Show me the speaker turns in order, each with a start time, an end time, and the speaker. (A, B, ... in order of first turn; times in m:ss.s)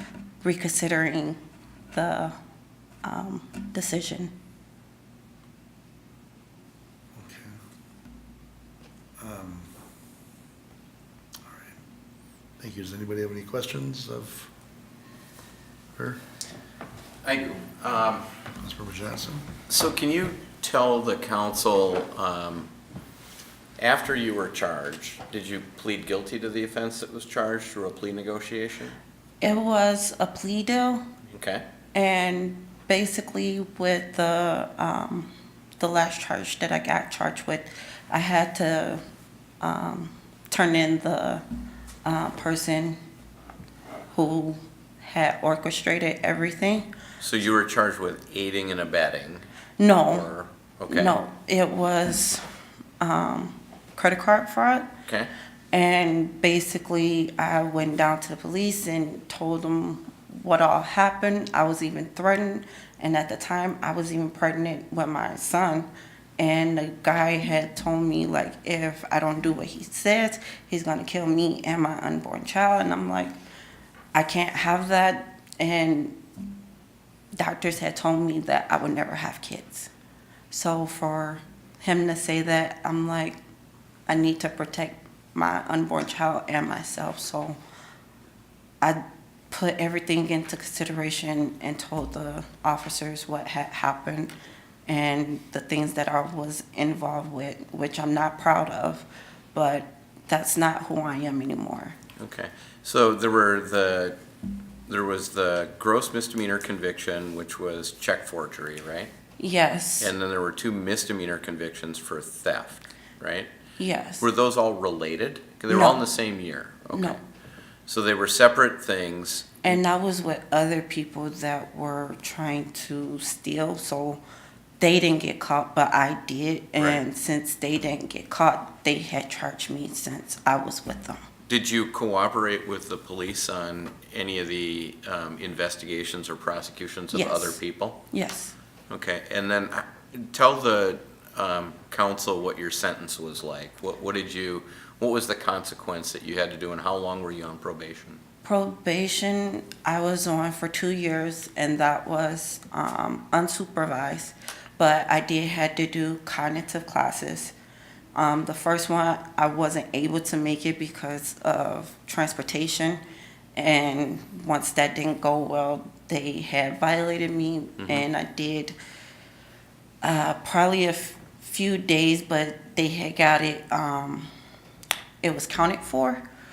0:00.4-0:01.4 A
0:01.9-0:02.3 A
0:03.0-0:04.3 A
0:07.2-0:07.5 B
0:09.2-0:09.7 B
0:12.6-0:14.5 B
0:16.0-0:16.2 B
0:17.2-0:18.2 C
0:18.6-0:19.5 B
0:19.7-0:22.7 C
0:23.8-0:29.0 C
0:29.4-0:31.0 A
0:31.3-0:31.6 C
0:31.9-0:39.0 A
0:39.6-0:41.4 A
0:42.0-0:43.0 A
0:44.1-0:46.9 A
0:47.2-0:49.4 C
0:49.8-0:50.3 A
0:50.0-0:51.2 C
0:50.9-0:52.4 A
0:53.0-0:54.9 A
0:55.7-1:13.3 A
1:14.1-1:16.2 A
1:17.3-1:19.9 A
1:20.5-1:23.4 A
1:24.1-1:27.6 A
1:28.8-1:34.3 A
1:34.9-1:42.0 A
1:42.2-1:44.2 C
1:44.9-1:49.1 C
1:49.4-1:50.1 A
1:50.0-1:53.5 C
1:53.8-1:54.2 A
1:54.2-1:57.2 C
1:55.7-1:56.0 A
1:56.9-1:57.2 A
1:57.9-1:59.8 C
1:59.6-2:04.2 A
2:04.8-2:11.2 A
2:11.5-2:18.0 C
2:17.1-2:17.6 A
2:18.1-2:18.5 A
2:18.9-2:28.2 C
2:28.4-2:37.5 A
2:38.1-2:43.0 A
2:43.5-2:48.8 A
2:50.0-2:54.3 A
2:55.2-2:56.2 A